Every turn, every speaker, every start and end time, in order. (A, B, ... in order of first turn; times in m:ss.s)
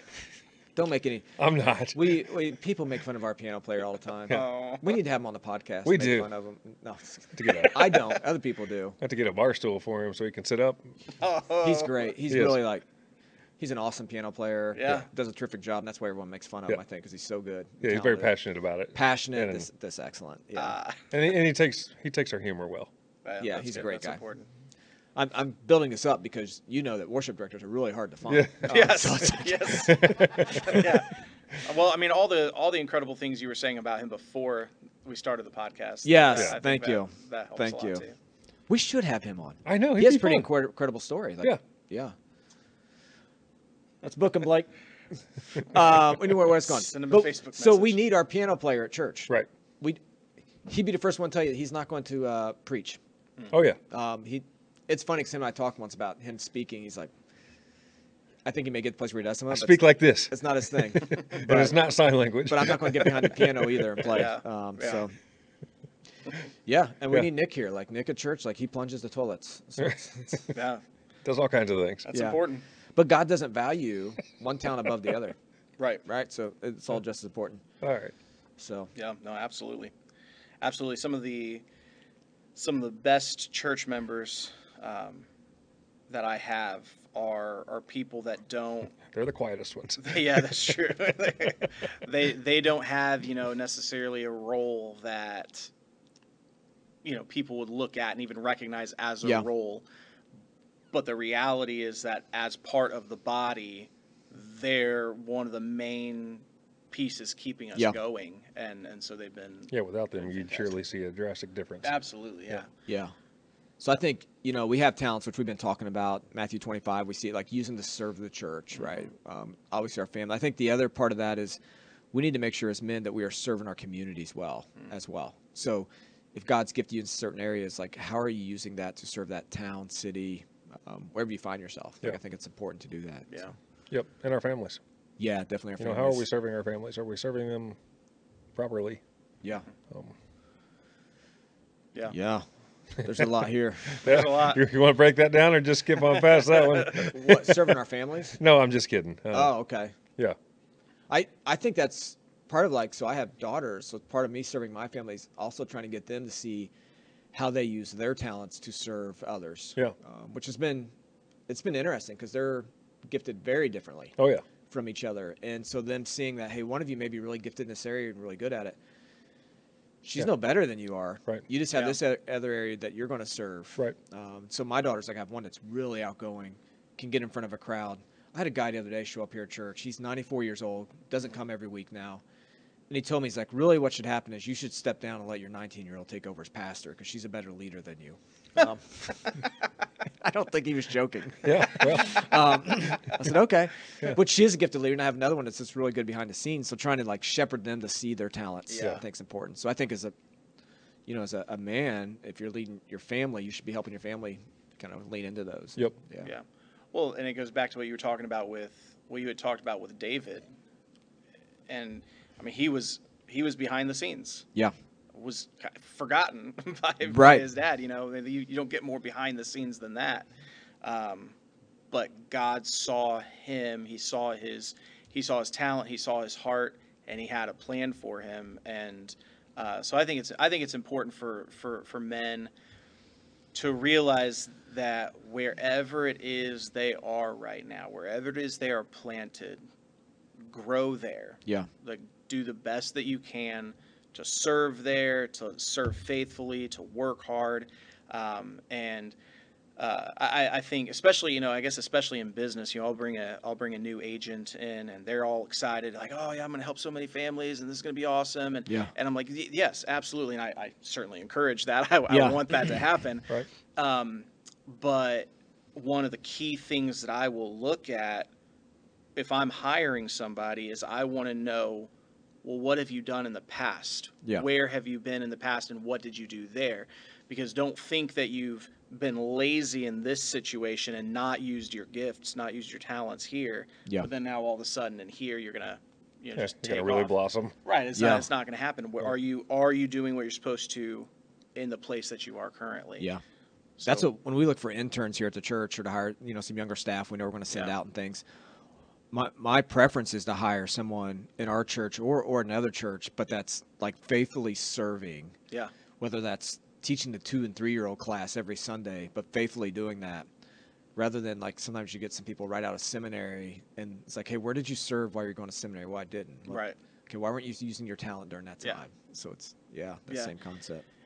0:00.7-0:01.3 A
0:01.4-0:02.3 B
0:01.9-0:09.0 A
0:04.3-0:04.9 C
0:05.8-0:06.3 B
0:07.3-0:08.1 B
0:09.0-0:10.8 B
0:11.2-0:12.1 C
0:11.6-0:12.8 A
0:12.3-0:12.6 B
0:13.6-0:18.3 A
0:14.7-0:15.1 C
0:17.8-0:19.7 B
0:18.9-0:20.8 A
0:20.6-0:21.1 C
0:21.1-0:22.9 B
0:23.2-0:24.5 C
0:23.4-0:24.2 A
0:25.1-0:30.8 A
0:28.3-0:28.7 B
0:28.7-0:38.1 C
0:29.8-0:30.8 B
0:36.0-0:38.0 A
0:38.7-0:42.1 A
0:39.6-0:40.5 B
0:44.0-0:44.7 A
0:45.5-0:50.0 A
0:46.5-0:48.0 C
0:50.6-0:53.0 A
0:53.5-0:53.8 B
0:53.9-0:57.1 A
0:58.4-1:01.8 A
0:59.5-1:03.9 B
1:02.5-1:05.1 A
1:04.0-1:05.0 C
1:06.6-1:10.4 A
1:09.8-1:10.5 B
1:10.5-1:10.8 C
1:11.2-1:12.1 B
1:12.1-1:12.6 C
1:12.1-1:12.4 A
1:12.9-1:15.4 A
1:16.0-1:17.6 A
1:17.8-1:18.1 B
1:18.6-1:18.9 A
1:19.0-1:19.9 C
1:20.6-1:21.6 C
1:22.5-1:25.3 C
1:26.1-1:29.0 C
1:29.1-1:30.4 B
1:30.0-1:35.7 C
1:37.0-1:39.8 C
1:40.9-1:50.7 C
1:49.7-1:51.9 B
1:51.8-1:52.7 C
1:52.8-1:53.1 A
1:53.8-2:01.6 A
1:58.7-1:59.1 C
2:02.1-2:13.3 A
2:13.3-2:13.5 C
2:13.9-2:14.8 B
2:15.2-2:16.2 A
2:15.8-2:17.8 B
2:18.6-2:19.0 B
2:22.1-2:22.4 A
2:23.0-2:24.0 A
2:24.0-2:24.6 C
2:24.0-2:27.2 B
2:26.0-2:27.1 C
2:27.1-2:28.4 A
2:28.4-2:29.5 B
2:29.3-2:29.9 A
2:31.1-2:36.7 A
2:37.3-2:40.9 A
2:41.5-2:44.2 A
2:44.2-2:44.4 B
2:44.7-2:48.8 A
2:50.0-3:02.2 A
2:51.7-2:52.0 C
3:02.9-3:09.5 A
3:10.2-3:20.1 A
3:11.4-3:12.2 B
3:18.7-3:19.0 C
3:21.1-3:26.3 A
3:26.2-3:30.4 C
3:31.7-3:34.4 C
3:35.1-3:40.3 C
3:37.0-3:37.4 A
3:40.8-3:41.3 C
3:41.9-3:52.5 C
3:53.5-3:59.6 C
4:00.4-4:09.1 C
4:09.8-4:28.3 C
4:18.7-4:18.9 A
4:22.1-4:22.7 A
4:29.2-4:31.9 C
4:32.4-4:53.1 C
4:46.4-4:47.6 B
4:47.9-4:48.3 A
4:53.8-4:54.1 C
4:53.8-4:58.2 A
4:59.1-5:05.4 A
5:06.0-5:10.3 A
5:11.0-5:20.8 A
5:16.5-5:16.8 C